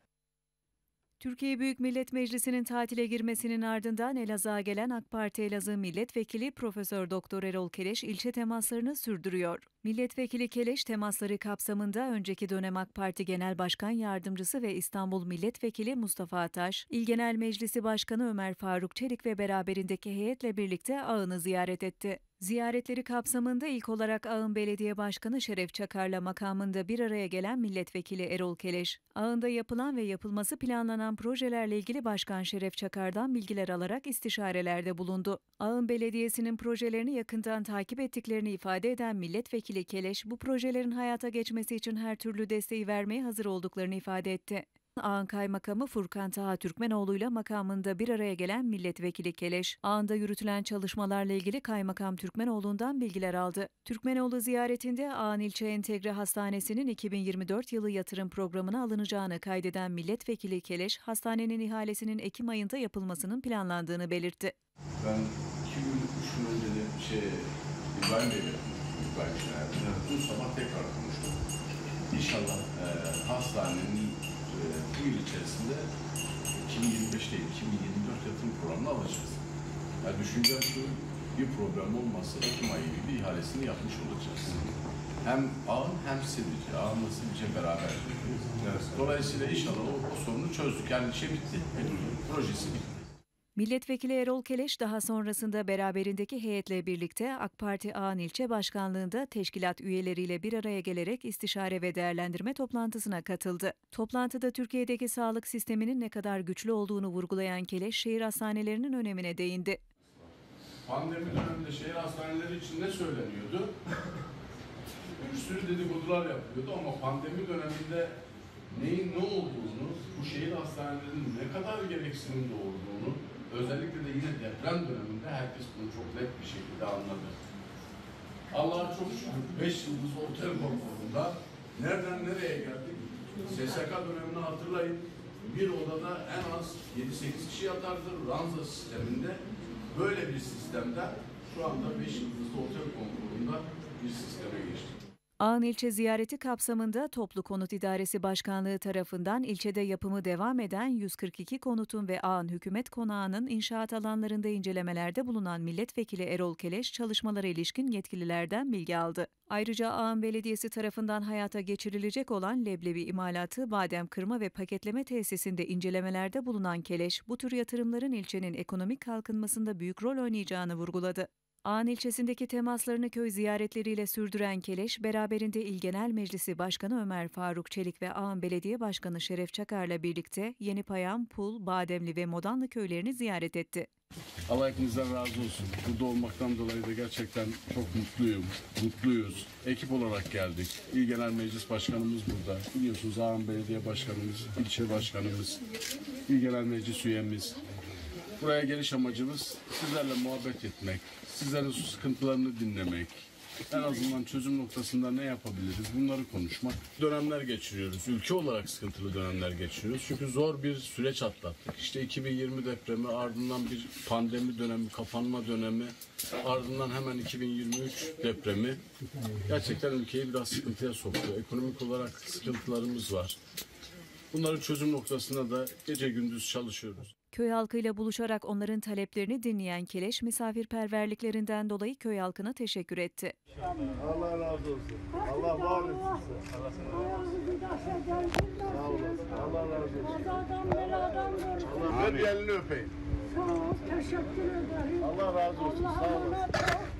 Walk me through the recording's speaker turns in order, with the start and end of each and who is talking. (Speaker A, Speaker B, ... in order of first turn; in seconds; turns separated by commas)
Speaker A: 1.2-64.5, Speaker B: 65.0-71.4, Speaker B: 72.1-75.9, Speaker B: 76.6-79.4, Speaker B: 80.0-93.0, Speaker A: 93.5-109.8, Speaker B: 110.8-113.7, Speaker B: 115.2-127.4, Speaker B: 128.5-145.0, Speaker A: 145.4-183.9, Speaker B: 184.5-195.6, Speaker B: 196.3-197.6, Speaker B: 198.4-223.4, Speaker B: 224.3-227.1, Speaker A: 227.3-233.3, Speaker C: 233.9-242.0, Speaker B: 241.8-242.9, Speaker C: 243.4-246.7